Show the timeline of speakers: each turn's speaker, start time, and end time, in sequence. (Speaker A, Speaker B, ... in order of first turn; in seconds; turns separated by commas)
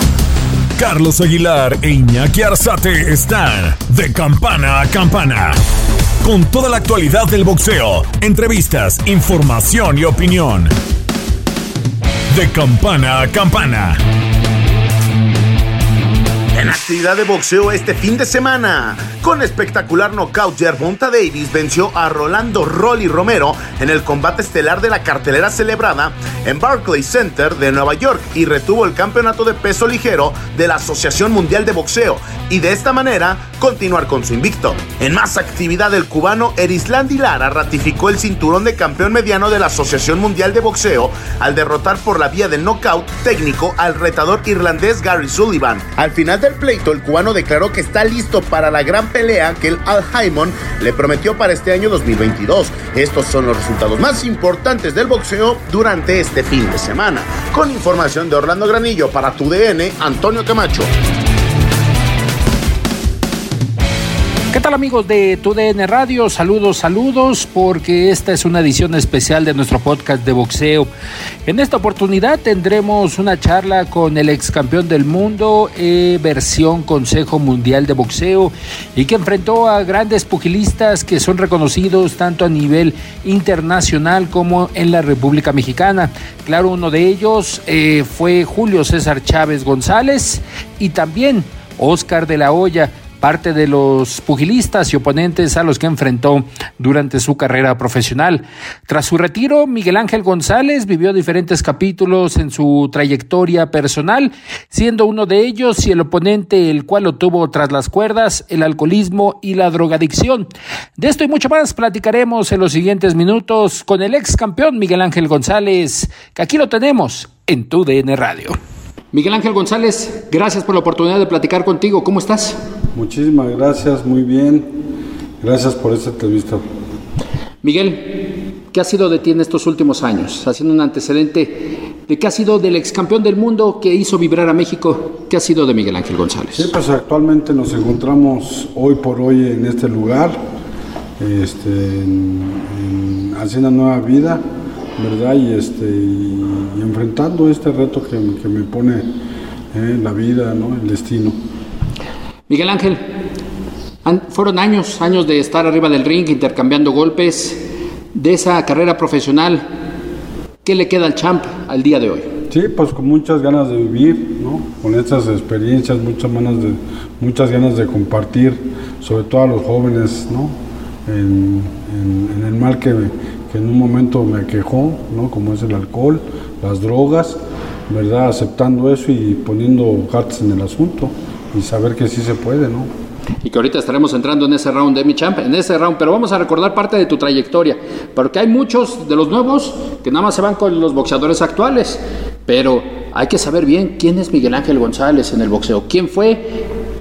Speaker A: 0.8-5.6, Speaker A: 6.2-10.7, Speaker A: 12.3-14.0, Speaker B: 16.5-60.9, Speaker C: 64.5-70.9, Speaker C: 71.5-118.6, Speaker C: 119.1-122.6, Speaker D: 122.9-124.7, Speaker D: 125.4-126.6, Speaker C: 127.6-136.7, Speaker D: 136.5-140.4, Speaker D: 141.2-144.4, Speaker D: 145.0-149.1, Speaker D: 149.7-151.4, Speaker C: 152.5-153.1, Speaker C: 154.0-159.6, Speaker C: 160.6-162.3, Speaker D: 162.5-170.6, Speaker D: 171.1-182.9, Speaker C: 183.4-196.6